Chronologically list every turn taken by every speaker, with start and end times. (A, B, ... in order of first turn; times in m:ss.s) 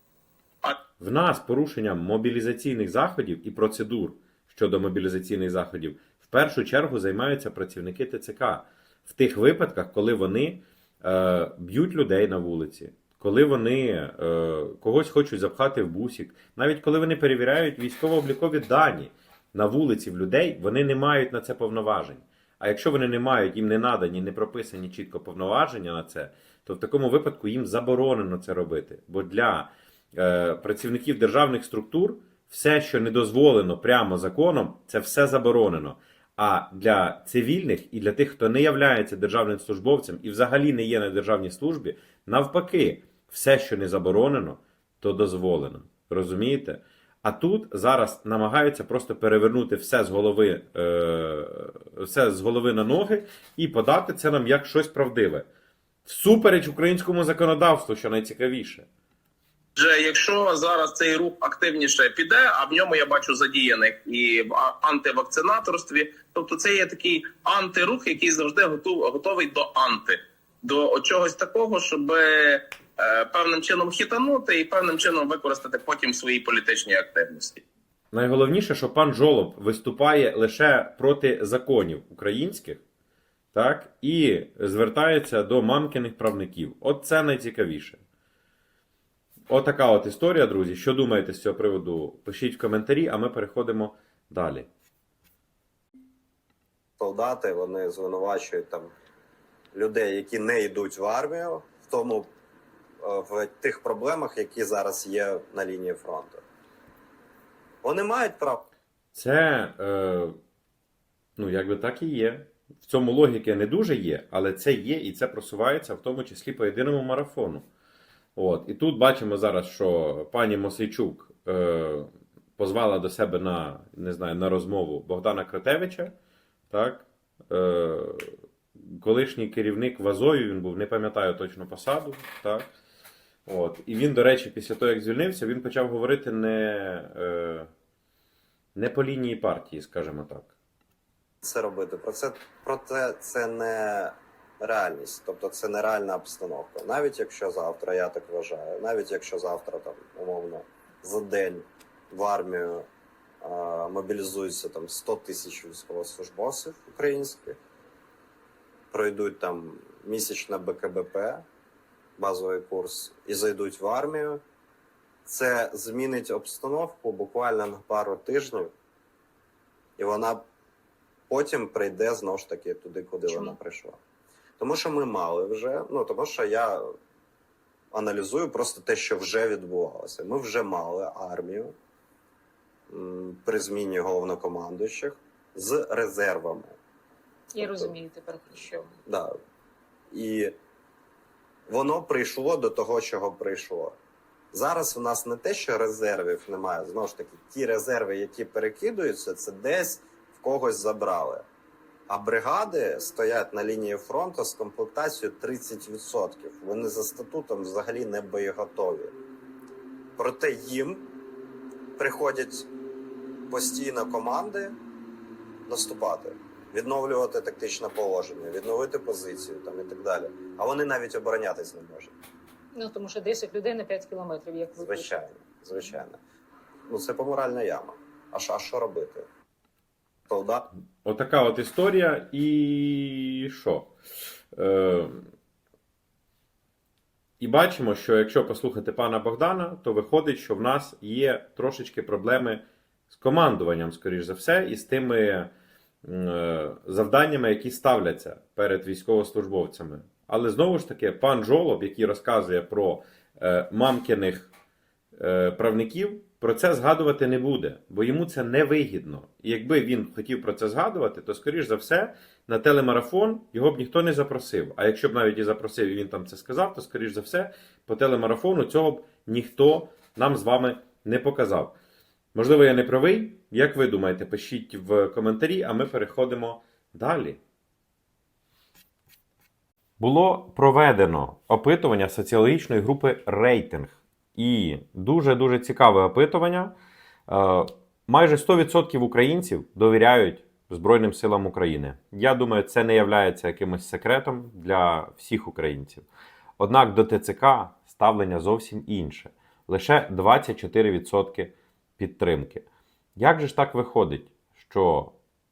0:01.0-0:55.4 A
0:56.1-0:58.9 A
0:59.8-1:17.6 B
1:18.1-1:22.8 A
1:23.5-1:28.0 A
1:29.5-1:34.7 A
1:37.0-1:38.9 C
1:39.7-1:42.3 C
1:43.0-1:46.4 C
1:47.8-1:48.7 C
1:49.1-1:50.4 A
1:51.4-1:57.7 A
1:58.4-2:06.1 A
2:06.7-2:12.7 A
2:13.5-2:17.7 A
2:18.8-2:20.5 A
2:21.4-2:32.8 C
2:33.4-2:37.6 C
2:38.9-2:41.4 C
2:42.2-2:44.4 C
2:45.3-2:48.7 C
2:50.0-2:50.4 C
2:51.3-2:54.0 C
2:53.3-2:53.6 D
2:54.6-2:56.9 C
2:57.9-3:01.7 C
3:02.9-3:06.8 C
3:07.5-3:09.0 D
3:07.6-3:07.9 C
3:09.1-3:09.3 C
3:10.1-3:10.5 C
3:11.7-3:14.0 C
3:14.5-3:21.4 C
3:22.1-3:29.1 C
3:30.2-3:31.0 C
3:32.0-3:32.7 C
3:33.5-3:34.8 C
3:35.7-3:42.1 C
3:42.8-3:45.1 D
3:44.8-3:46.2 C
3:46.9-3:49.3 C
3:50.3-3:50.7 C
3:51.0-3:53.9 A
3:54.6-3:55.3 A
3:57.4-4:05.5 A
4:06.0-4:14.5 A
4:15.2-4:31.8 A
4:32.4-4:37.4 A
4:40.0-4:46.7 A
4:47.3-4:56.1 A
4:56.6-5:02.6 A
5:03.2-5:05.2 A